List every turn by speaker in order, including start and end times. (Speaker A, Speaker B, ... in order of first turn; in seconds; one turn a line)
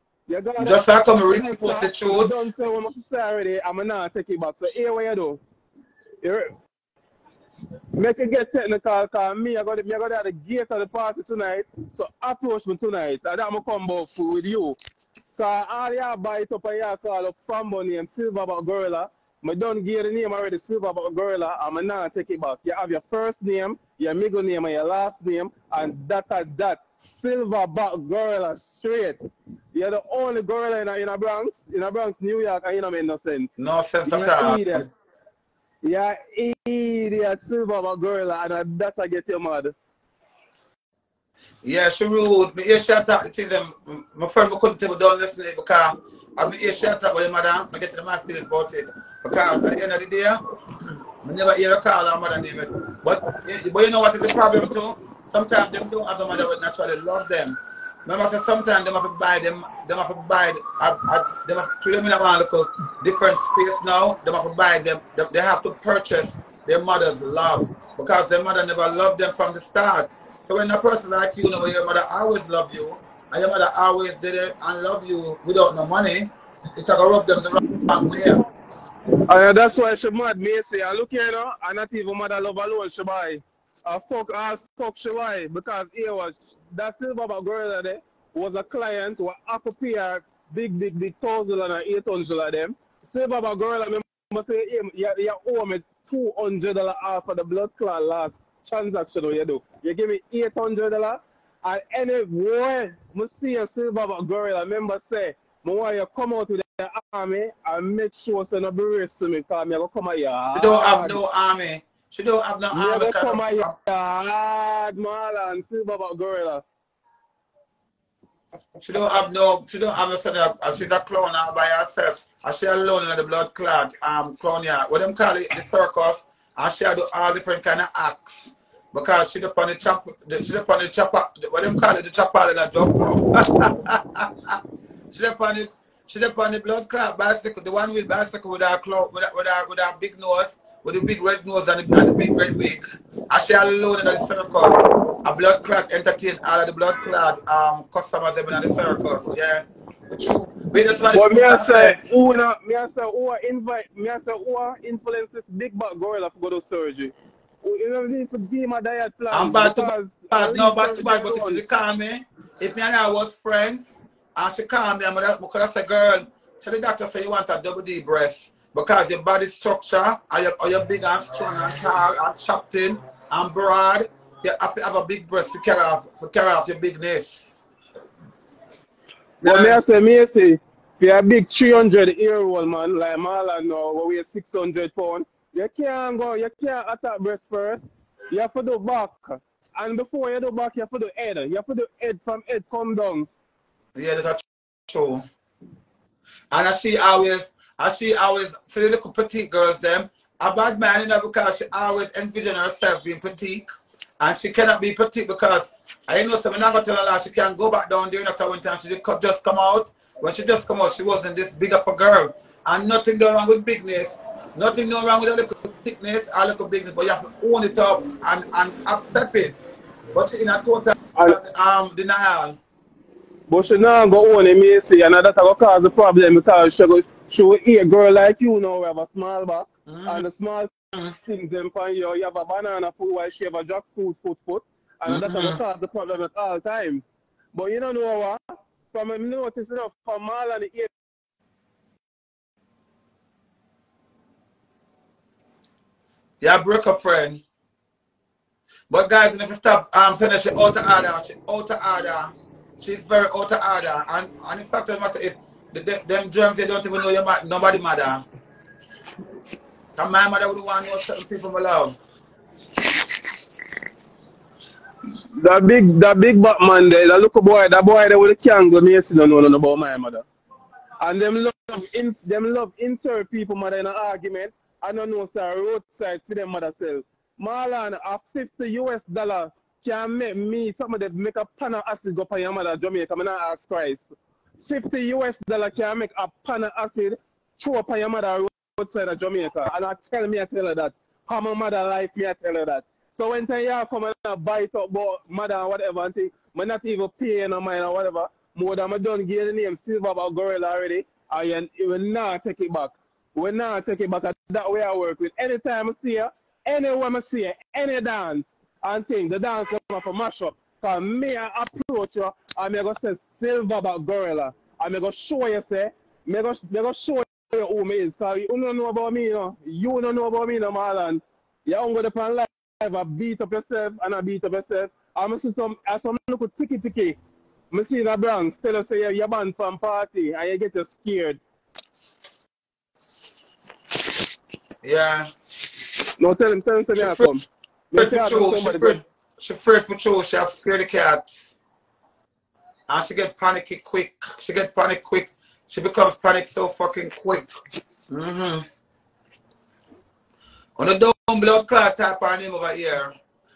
Speaker A: 0.3-5.4
Speaker B: 0.6-2.5
Speaker A: 6.2-6.5
Speaker A: 8.0-14.8
Speaker A: 15.3-29.2
Speaker A: 29.7-33.5
Speaker B: 33.6-34.9
Speaker A: 34.0-34.9
Speaker A: 35.8-39.7
Speaker B: 41.6-78.4
Speaker A: 79.3-111.2
Speaker B: 110.5-113.8
Speaker A: 112.7-116.6
Speaker B: 118.8-134.6
Speaker B: 135.1-152.0
Speaker A: 151.1-161.6
Speaker B: 159.3-177.5
Speaker B: 179.4-179.8
Speaker A: 179.4-193.3
Speaker B: 193.9-195.2
Speaker B: 196.5-203.7
Speaker B: 204.2-222.6
Speaker A: 223.5-230.7
Speaker B: 229.9-230.2
Speaker A: 231.2-238.4
Speaker B: 235.1-235.6
Speaker A: 238.9-240.9
Speaker B: 246.4-247.4
Speaker B: 248.9-258.2
Speaker B: 259.9-262.0
Speaker A: 265.4-270.2
Speaker A: 271.0-284.1
Speaker A: 284.6-327.2
Speaker A: 327.7-331.4
Speaker B: 334.8-335.3
Speaker A: 336.2-339.0
Speaker B: 336.9-337.3
Speaker B: 337.9-341.3
Speaker B: 342.9-347.5
Speaker B: 348.1-348.6
Speaker B: 350.8-353.1